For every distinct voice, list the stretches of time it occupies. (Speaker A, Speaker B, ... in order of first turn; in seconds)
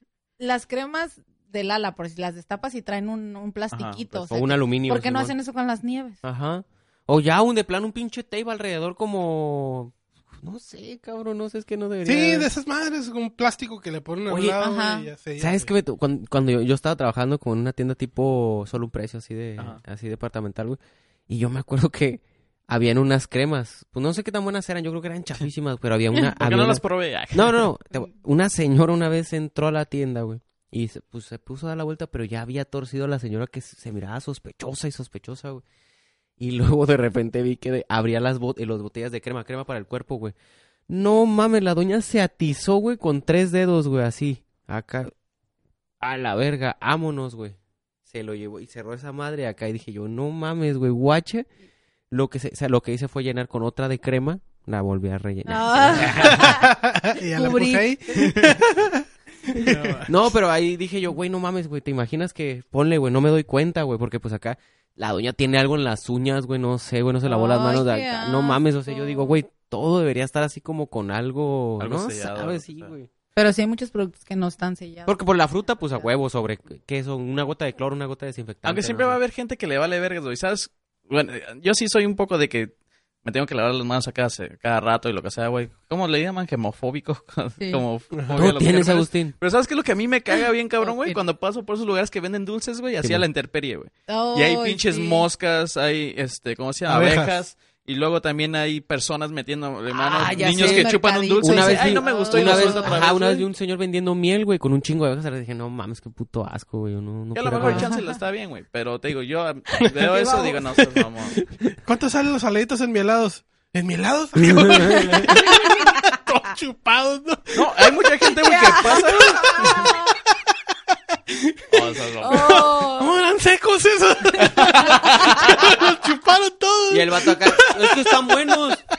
Speaker A: 0.4-6.2, 14.6-15.1, 55.5-56.7, 57.3-58.1, 67.2-69.4, 73.4-76.1, 90.8-91.2, 94.1-95.2, 100.2-103.0, 107.6-108.2, 110.2-110.5, 115.3-115.7, 118.5-120.1, 122.2-123.2
Speaker B: 3.7-4.3, 26.4-27.7, 58.2-58.5, 71.8-72.9, 78.6-82.7, 83.2-103.5, 107.3-111.4, 117.5-119.9, 121.7-122.5, 124.4-125.7
Speaker C: 4.3-5.3, 6.2-12.5, 14.3-14.6, 15.4-35.6, 36.4-40.4, 40.9-45.1, 46.0-51.5, 52.1-56.5, 60.0-73.1, 75.1-79.2, 88.3-89.3, 100.0-107.9, 114.5-115.3, 126.9-128.8
Speaker D: 12.0-15.7, 56.2-60.2, 88.2-88.4, 96.9-97.4, 109.8-110.4, 111.7-128.6